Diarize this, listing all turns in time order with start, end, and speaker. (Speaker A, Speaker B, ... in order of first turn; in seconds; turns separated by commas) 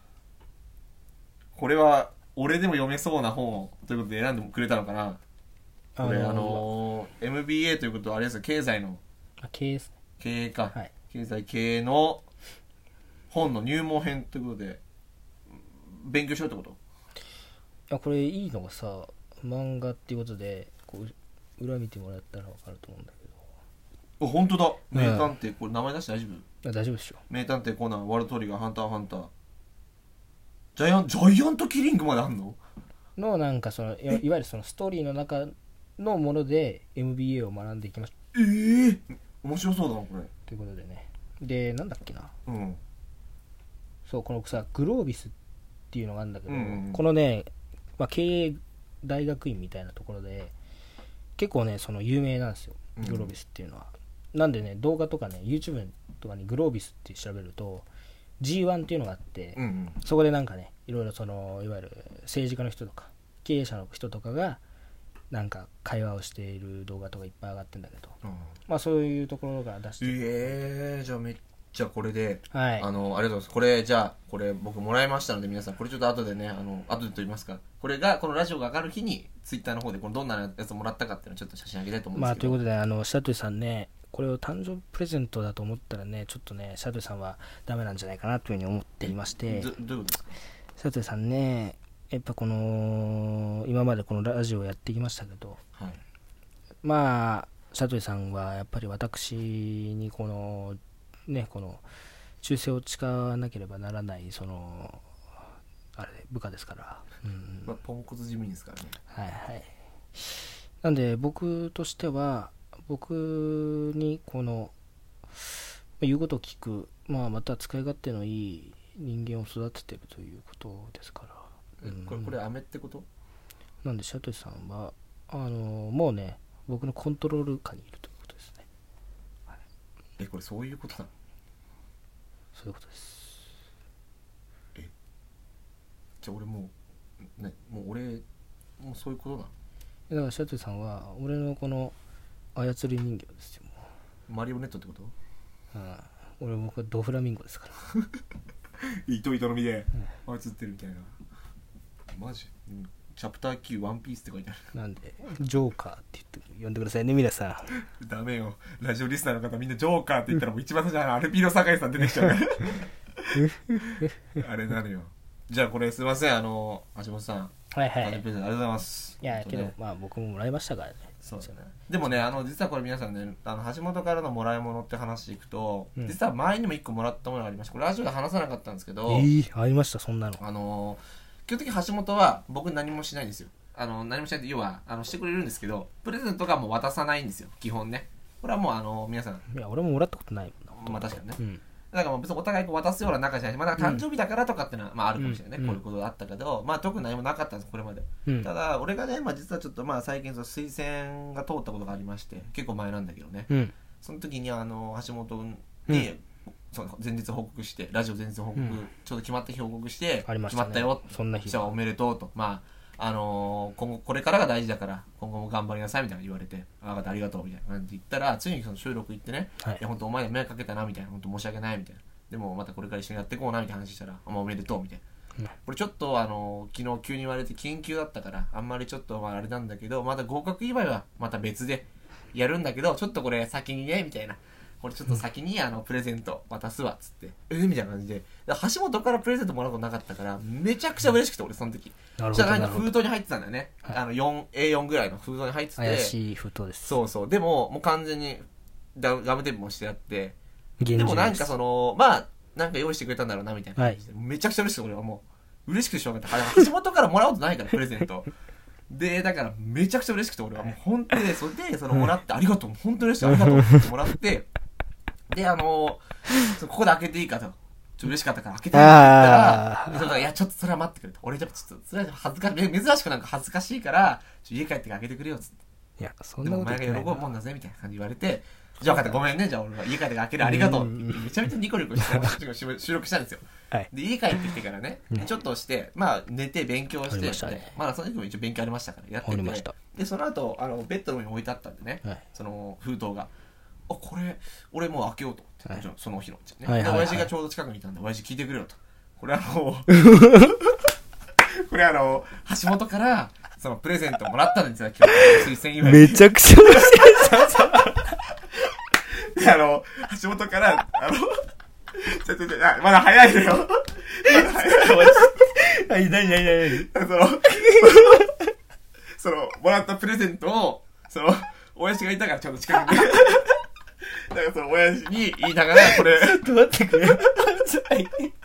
Speaker A: 1.6-5.2, Speaker B: 6.0-6.7, Speaker A: 6.0-9.0, Speaker B: 9.4-9.9, Speaker A: 10.2-12.2, Speaker A: 13.3-14.8, Speaker A: 15.9-16.8, Speaker B: 17.9-23.4, Speaker A: 24.2-26.5, Speaker B: 24.9-25.3, Speaker B: 26.6-27.2, Speaker A: 27.3-29.3, Speaker A: 30.8-32.6, Speaker B: 33.2-38.1, Speaker A: 38.3-40.3, Speaker B: 40.5-42.3, Speaker A: 42.5-42.8, Speaker B: 44.1-45.3, Speaker B: 45.9-50.5, Speaker A: 46.5-47.0, Speaker B: 51.4-57.9, Speaker A: 53.0-53.3, Speaker B: 58.4-64.6, Speaker A: 59.6-60.0, Speaker B: 65.3-70.5, Speaker A: 68.2-68.5, Speaker A: 70.0-82.6, Speaker B: 72.5-72.9, Speaker B: 82.2-89.7, Speaker A: 89.0-90.3, Speaker B: 90.8-95.6, Speaker A: 95.8-96.0, Speaker B: 96.8-101.8, Speaker B: 102.4-105.0, Speaker B: 106.0-107.7, Speaker A: 107.7-109.0, Speaker B: 109.1-114.7, Speaker B: 115.4-122.3, Speaker A: 121.8-123.1, Speaker B: 123.8-128.7, Speaker A: 130.2-131.1, Speaker B: 132.5-133.5, Speaker A: 136.2-136.7, Speaker A: 137.2-138.2, Speaker A: 138.8-139.5, Speaker B: 140.1-141.9, Speaker B: 142.6-143.9, Speaker A: 144.3-145.1, Speaker B: 145.7-147.8, Speaker A: 149.1-151.1, Speaker A: 152.1-154.7, Speaker B: 154.7-157.8, Speaker A: 158.0-169.7, Speaker B: 163.4-164.2, Speaker B: 167.7-168.2, Speaker B: 169.2-171.5, Speaker A: 171.2-179.3, Speaker B: 179.1-180.4, Speaker A: 180.4-189.4, Speaker B: 189.5-191.6, Speaker A: 190.8-191.4, Speaker A: 191.9-203.5, Speaker B: 193.8-194.1, Speaker B: 195.2-195.8, Speaker B: 203.5-203.7, Speaker A: 204.0-225.0, Speaker B: 210.3-211.7, Speaker A: 225.7-246.2, Speaker B: 242.2-243.0, Speaker B: 245.8-246.9, Speaker A: 246.9-248.4, Speaker A: 249.0-250.4, Speaker B: 250.8-251.5, Speaker A: 250.9-258.3, Speaker A: 258.9-264.5, Speaker B: 263.2-263.9, Speaker A: 265.3-275.5, Speaker B: 268.7-270.1, Speaker B: 276.0-277.2, Speaker A: 276.4-293.3, Speaker B: 278.8-279.2, Speaker B: 280.4-281.4, Speaker B: 282.0-282.3, Speaker B: 283.7-284.5, Speaker B: 287.1-287.8, Speaker B: 289.2-289.7, Speaker A: 293.9-300.1, Speaker B: 296.7-297.3, Speaker B: 299.9-300.6, Speaker A: 301.6-307.8, Speaker B: 305.1-308.1, Speaker A: 309.4-311.4, Speaker A: 311.9-315.5, Speaker B: 314.3-316.9, Speaker A: 316.8-318.3, Speaker B: 317.5-318.4, Speaker A: 319.2-323.6, Speaker A: 324.3-326.4, Speaker B: 325.8-328.3